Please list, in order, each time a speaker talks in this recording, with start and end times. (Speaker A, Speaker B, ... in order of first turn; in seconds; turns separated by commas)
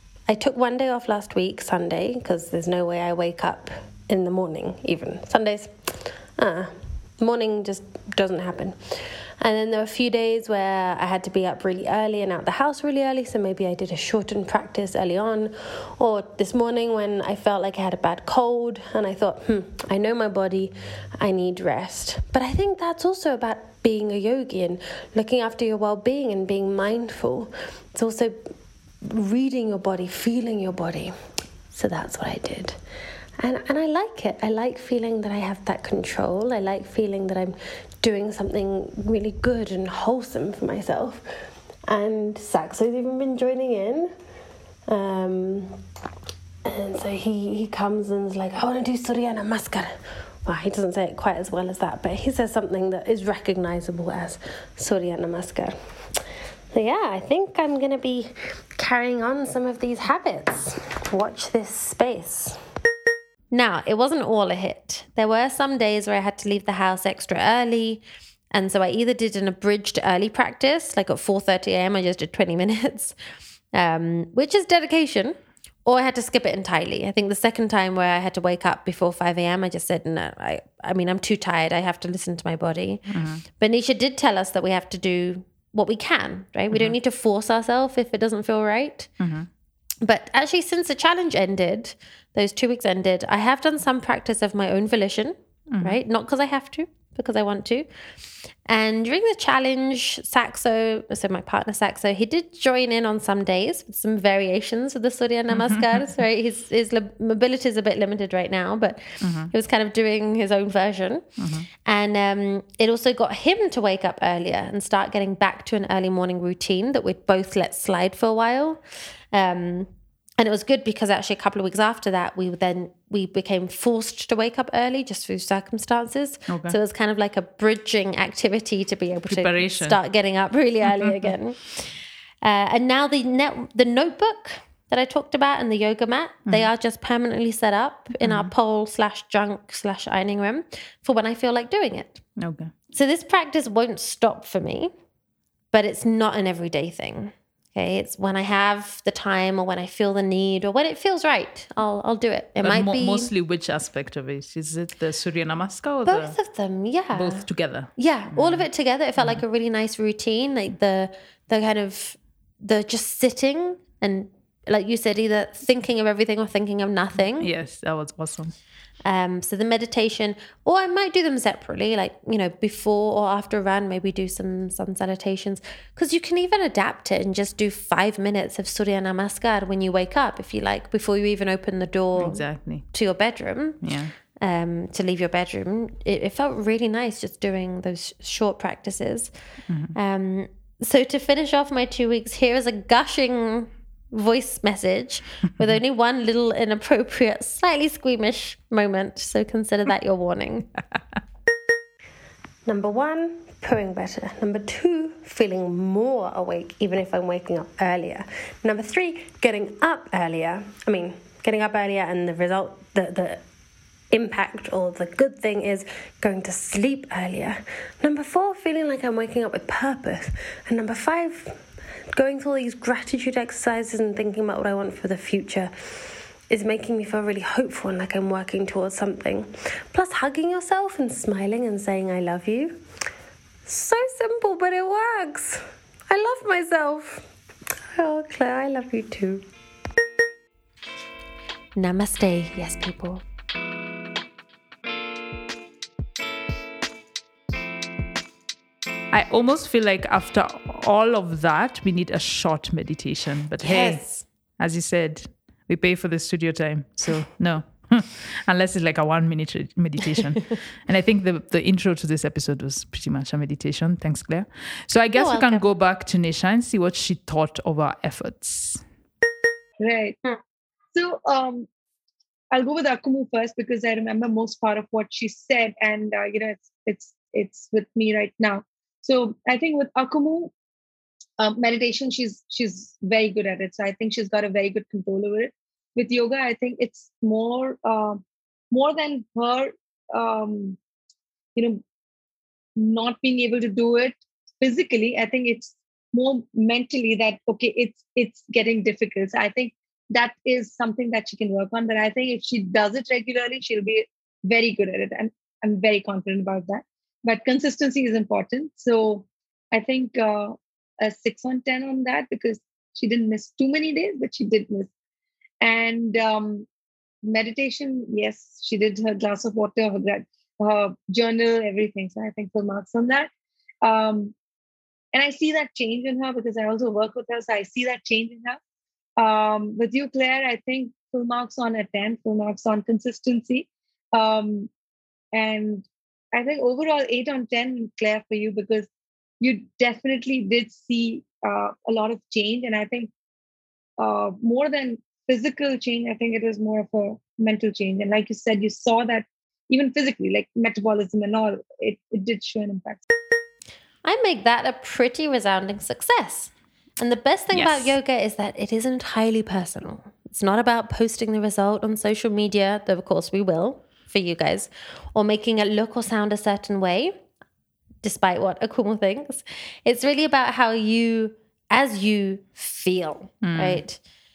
Speaker A: 0.3-28.4, Speaker A: 29.0-31.1, Speaker A: 31.7-32.8, Speaker A: 33.4-41.2, Speaker A: 41.9-44.1, Speaker A: 44.9-45.8, Speaker A: 46.6-55.8, Speaker A: 56.7-62.6, Speaker B: 63.5-68.0, Speaker B: 68.5-73.2, Speaker B: 73.7-89.1, Speaker C: 83.1-83.4, Speaker C: 89.2-89.5, Speaker B: 90.0-97.9, Speaker C: 95.7-96.0, Speaker B: 98.7-111.3, Speaker C: 105.5-106.0, Speaker C: 109.2-109.5, Speaker C: 111.4-111.7, Speaker B: 111.8-118.8, Speaker B: 119.3-142.2, Speaker C: 126.5-126.8, Speaker C: 129.3-130.0, Speaker C: 130.9-131.3, Speaker C: 138.2-138.5, Speaker C: 142.4-142.7, Speaker B: 142.9-144.9, Speaker B: 145.7-153.3, Speaker C: 152.6-156.4, Speaker B: 156.1-167.5, Speaker C: 157.1-158.6, Speaker C: 167.4-168.5, Speaker B: 169.1-183.8, Speaker C: 182.2-182.9, Speaker C: 183.8-184.1, Speaker B: 184.4-189.3, Speaker C: 189.7-189.9, Speaker B: 189.9-200.7, Speaker A: 202.7-213.4, Speaker A: 214.1-221.6, Speaker A: 222.1-225.7, Speaker A: 226.5-232.8, Speaker A: 233.7-237.3, Speaker A: 237.9-239.4, Speaker B: 241.8-243.2, Speaker C: 249.1-254.0, Speaker B: 253.6-254.2, Speaker C: 254.6-268.8, Speaker B: 265.1-265.6, Speaker D: 269.8-270.2, Speaker D: 270.9-271.7, Speaker D: 272.5-280.5, Speaker D: 281.4-290.8, Speaker D: 291.6-291.8, Speaker D: 292.8-314.9, Speaker D: 315.6-316.7, Speaker D: 317.2-323.3, Speaker D: 323.8-324.4, Speaker D: 325.1-328.6, Speaker D: 329.2-334.7, Speaker D: 335.3-338.9, Speaker D: 339.4-343.1, Speaker D: 344.0-353.0, Speaker B: 354.1-367.2, Speaker C: 357.5-357.9, Speaker B: 368.0-374.0, Speaker C: 373.4-373.8